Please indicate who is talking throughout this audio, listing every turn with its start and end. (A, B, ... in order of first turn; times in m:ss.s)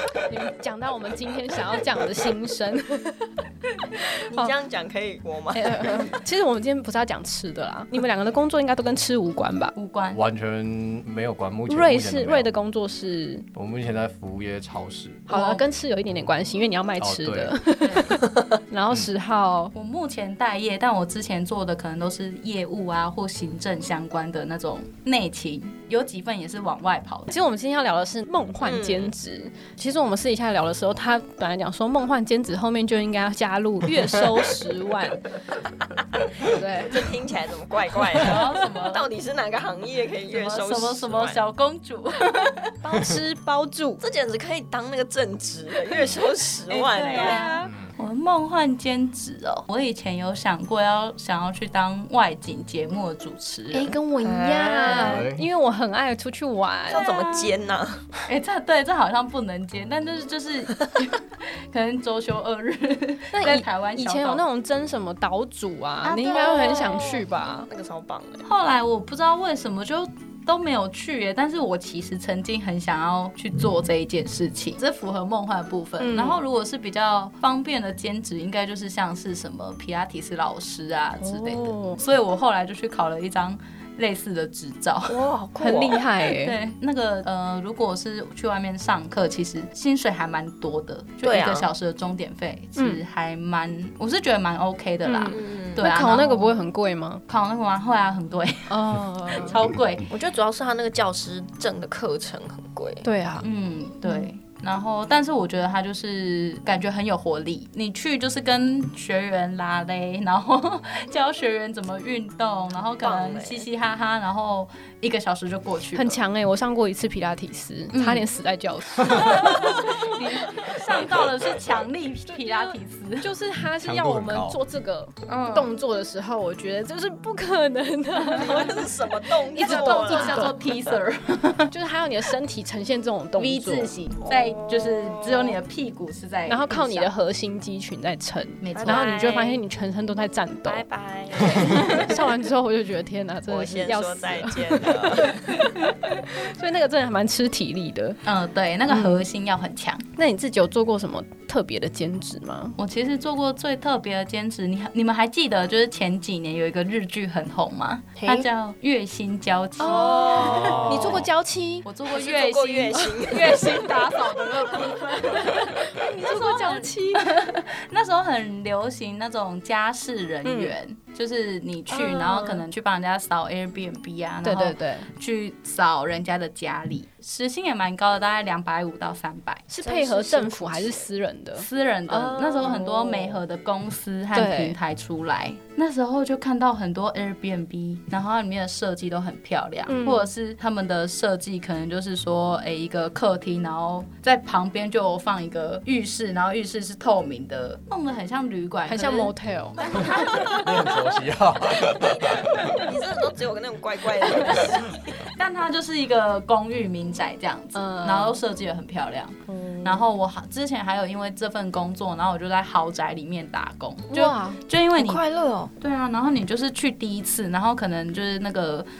0:00.2-0:03.3 A
0:03.9-0:04.5 A
0:04.2-0:06.2 B
0:05.5-0:09.7 A
0:09.7-0:10.2 C
0:10.1-0:12.5 D
0:11.7-0:13.4 A
0:13.5-0:15.3 D
0:15.3-0:19.7 A
0:15.3-0:15.6 C
0:17.0-0:17.5 D
0:17.8-0:18.1 C
0:19.7-0:27.3 C
0:27.3-0:35.2 A
0:28.6-0:29.1 B
0:36.4-0:37.1 A
0:36.4-0:41.4 B
0:38.1-0:39.1 C
0:40.3-0:42.8 C
0:42.8-0:44.0 A
0:44.0-0:47.6 B
0:46.7-0:54.0 C
0:47.1-0:47.7 A
0:47.6-0:47.9 D
0:53.7-0:57.0 A
0:54.2-0:55.2 B
0:55.0-0:55.5 D
0:56.9-0:58.0 B
0:56.9-0:57.6 C
0:58.2-1:04.4 C
1:03.3-1:07.7 A
1:06.0-1:07.2 C
1:06.3-1:08.4 B
1:08.4-1:25.2 C
1:16.0-1:16.4 A
1:21.2-1:22.0 A
1:25.1-1:26.1 B
1:25.6-1:26.6 A
1:26.3-1:36.6 C
1:31.2-1:31.7 B
1:35.0-1:37.2 A
1:35.3-1:35.8 B
1:37.3-1:40.1 C
1:38.7-1:39.6 A
1:40.1-1:43.0 B
1:43.0-1:43.4 A
1:43.4-1:56.2 C
1:53.0-1:53.7 B
1:55.9-2:00.1 A
1:57.9-1:58.3 C
1:59.0-2:03.3 C
2:02.3-2:10.6 A
2:03.7-2:04.6 D
2:05.3-2:05.7 C
2:08.3-2:10.6 B
2:08.3-2:08.6 C
2:09.6-2:11.7 C
2:11.7-2:13.9 A
2:13.4-2:17.1 C
2:14.3-2:15.6 B
2:16.5-2:20.8 A
2:18.6-2:19.1 C
2:18.8-2:19.6 B
2:20.6-2:22.2 B
2:21.4-2:28.2 A
2:23.5-2:25.6 B
2:28.2-2:30.0 C
2:28.9-2:29.2 A
2:30.2-2:32.8 A
2:32.8-2:41.2 C
2:38.2-2:38.5 B
2:39.8-2:41.9 A
2:39.9-2:41.1 B
2:40.4-2:41.3 D
2:41.8-3:21.0 C
2:42.1-2:43.9 B
2:43.0-2:43.7 A
2:45.1-2:47.3 A
2:50.4-2:50.7 A
2:51.9-2:52.6 A
2:54.4-2:55.1 A
2:59.7-3:03.4 A
3:02.2-3:02.8 B
3:04.3-3:04.8 A
3:09.9-3:10.3 A
3:18.9-3:20.5 A
3:20.4-3:22.6 D
3:21.7-3:25.0 B
3:24.4-3:35.2 C
3:27.7-3:28.4 A
3:29.5-3:30.0 A
3:34.1-3:34.6 A
3:35.0-3:35.7 B
3:35.8-3:38.9 C